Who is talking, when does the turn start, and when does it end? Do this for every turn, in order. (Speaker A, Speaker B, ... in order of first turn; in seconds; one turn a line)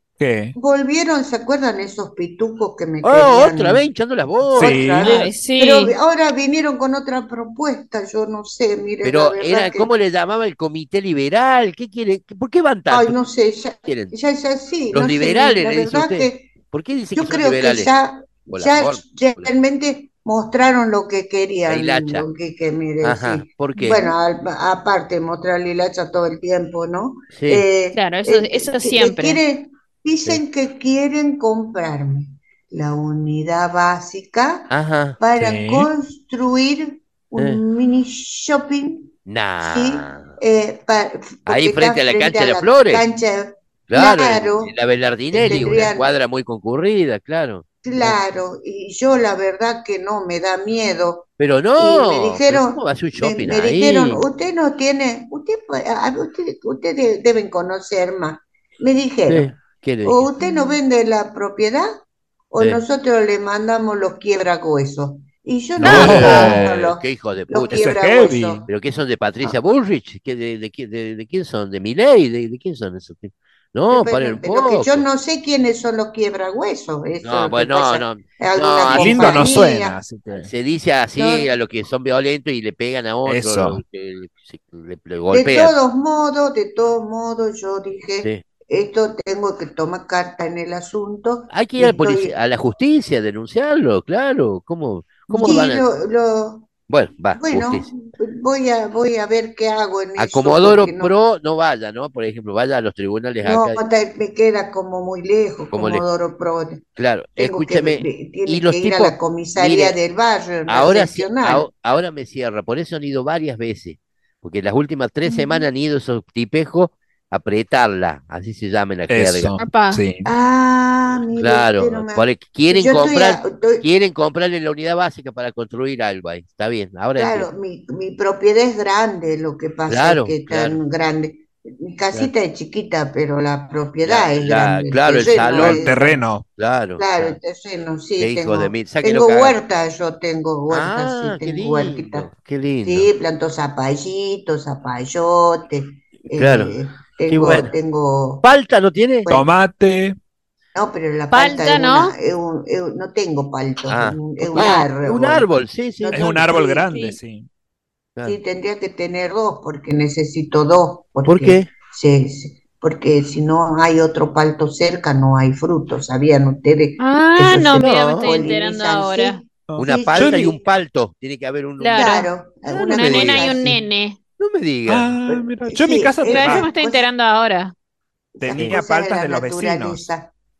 Speaker A: 0.2-0.5
Speaker B: 0.6-3.8
Speaker C: 3.0-5.1
Speaker B: 4.4-9.9
Speaker A: 4.5-5.1
Speaker D: 5.0-5.9
Speaker C: 9.0-13.2
Speaker B: 12.9-16.5
Speaker C: 13.8-14.1
Speaker C: 14.9-17.9
Speaker B: 17.1-44.7
Speaker C: 18.5-19.5
Speaker C: 21.6-22.3
Speaker C: 23.0-24.1
Speaker C: 27.3-27.6
Speaker D: 27.9-29.4
Speaker C: 34.7-35.2
Speaker A: 35.4-35.9
Speaker C: 37.4-37.6
Speaker C: 39.2-40.3
Speaker C: 41.5-43.0
Speaker C: 43.9-48.2
Speaker B: 45.3-46.1
Speaker B: 47.8-61.9
Speaker C: 51.4-54.2
Speaker C: 59.3-60.3
Speaker D: 60.4-60.8
Speaker B: 62.5-68.6
Speaker C: 62.6-62.8
Speaker C: 65.8-68.0
Speaker A: 65.8-66.7
Speaker A: 67.7-68.7
Speaker C: 68.7-75.0
Speaker B: 73.9-80.0
Speaker C: 77.2-79.6
Speaker A: 78.9-80.5
Speaker C: 80.3-85.7
Speaker B: 81.2-81.5
Speaker A: 83.2-83.8
Speaker B: 85.3-92.3
Speaker C: 91.5-95.8
Speaker B: 95.3-96.7
Speaker C: 96.9-97.9
Speaker B: 97.3-101.1
Speaker C: 100.2-103.8
Speaker B: 103.4-106.8
Speaker C: 105.7-106.0
Speaker C: 107.0-110.0
Speaker B: 107.3-111.7
Speaker C: 110.7-119.6
Speaker B: 115.2-115.7
Speaker A: 119.1-120.3
Speaker D: 119.6-120.0
Speaker B: 120.2-123.8
Speaker C: 121.3-127.5
Speaker B: 127.2-136.3
Speaker C: 129.9-130.8
Speaker C: 134.0-135.8
Speaker A: 135.5-136.4
Speaker C: 136.6-137.4
Speaker B: 137.0-142.3
Speaker C: 138.2-139.6
Speaker C: 140.7-143.1
Speaker B: 142.8-148.4
Speaker C: 146.3-147.7
Speaker C: 148.4-149.3
Speaker A: 149.3-150.2
Speaker B: 150.7-155.5
Speaker D: 151.3-152.1
Speaker C: 153.9-156.2
Speaker B: 156.0-156.9
Speaker A: 156.1-157.5
Speaker D: 156.9-157.2
Speaker B: 158.2-170.6
Speaker C: 161.2-161.7
Speaker D: 167.0-169.4
Speaker C: 167.7-168.4
Speaker A: 169.7-170.5
Speaker C: 169.8-172.1
Speaker D: 171.8-172.3
Speaker B: 171.9-173.8
Speaker C: 172.7-173.6
Speaker D: 172.8-174.2
Speaker C: 174.4-175.1
Speaker A: 174.9-176.7
Speaker B: 175.2-177.0
Speaker D: 176.3-177.7
Speaker A: 178.4-180.0
Speaker B: 178.4-180.3